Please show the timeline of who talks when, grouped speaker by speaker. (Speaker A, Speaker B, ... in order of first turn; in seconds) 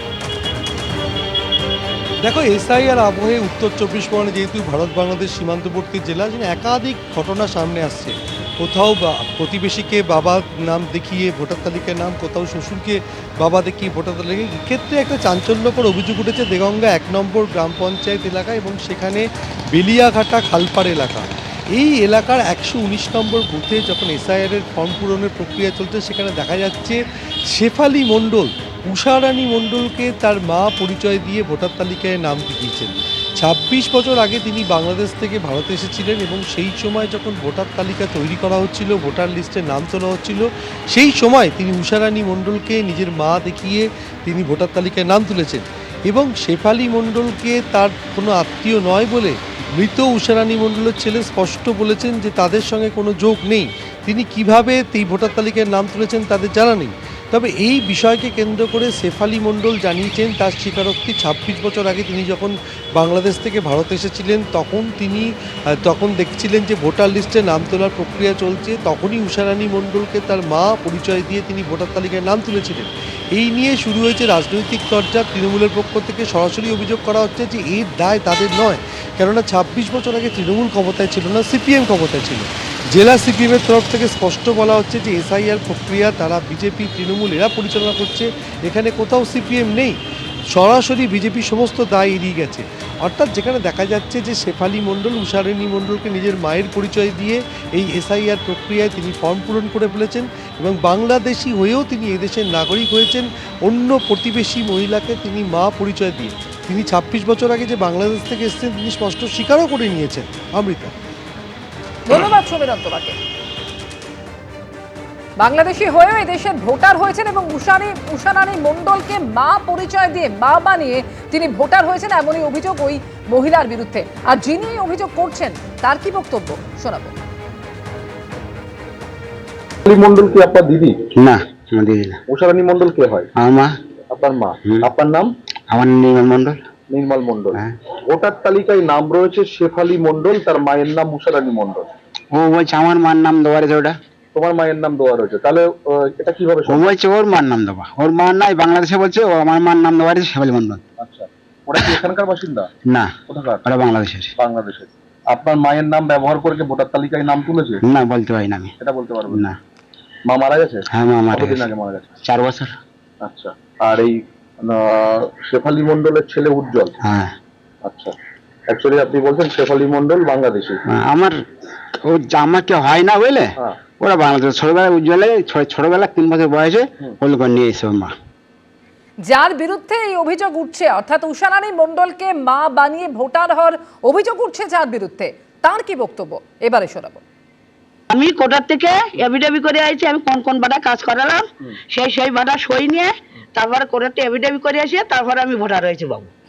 Speaker A: 2.2-27.0, 27.5-90.0, 90.5-110.9
Speaker B: 112.0-113.1, 115.4-127.1, 179.2-187.2
Speaker C: 129.9-131.0, 132.3-133.3, 134.1-135.3, 136.9-141.9, 144.3-146.9, 151.0-152.7, 153.3-153.7, 154.4-157.8, 158.8-159.5, 160.3-162.1, 163.2-166.9, 167.8-168.1, 168.7-170.8
Speaker D: 131.1-132.2, 133.4-133.7, 135.7-136.6, 142.3-144.0, 146.7-150.8, 152.8-154.3, 157.8-158.7, 159.3-159.6, 160.9-161.7, 162.2-162.8, 167.0-167.3, 170.9-171.4, 172.0-178.1
Speaker E: 188.1-196.3